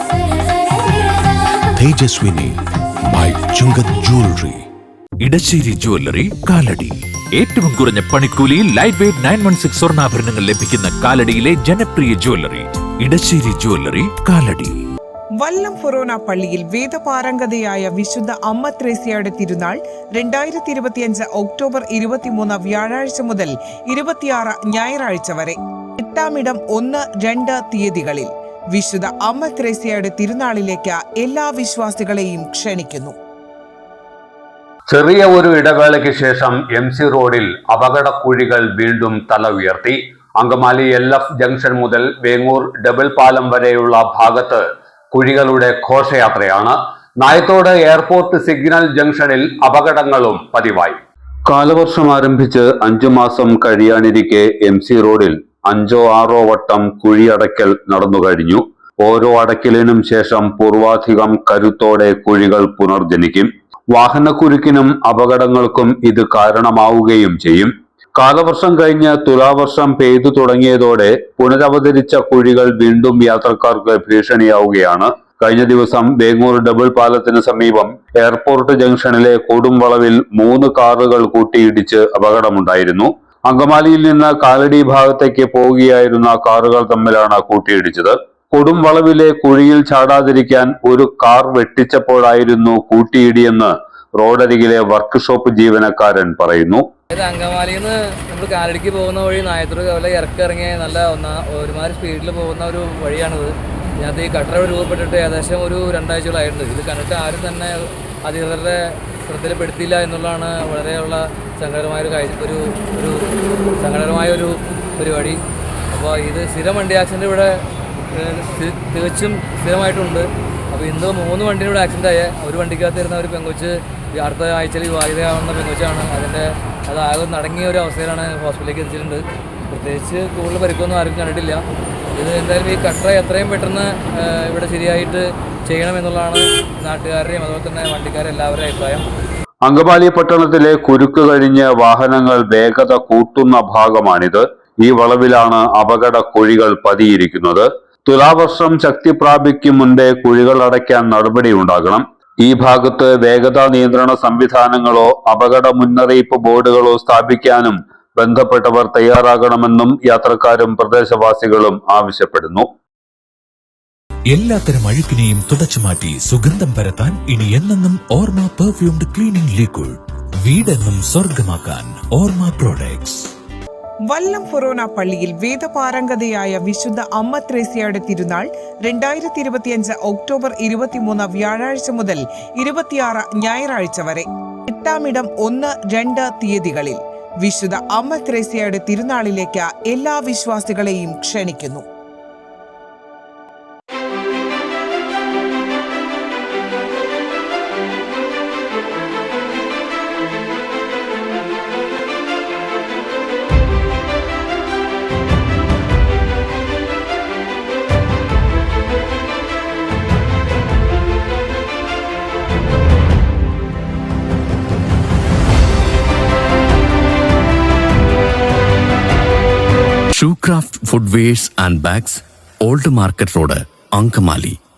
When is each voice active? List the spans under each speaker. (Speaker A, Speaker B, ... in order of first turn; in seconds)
Speaker A: 1.8-4.7
Speaker B: 5.2-14.8, 164.3-173.2
Speaker C: 15.4-33.1, 174.1-191.8
Speaker D: 34.9-96.8, 139.7-162.7
Speaker E: 97.1-113.2, 113.8-115.4, 115.9-131.6, 132.1-139.0
Speaker F: 220.2-224.6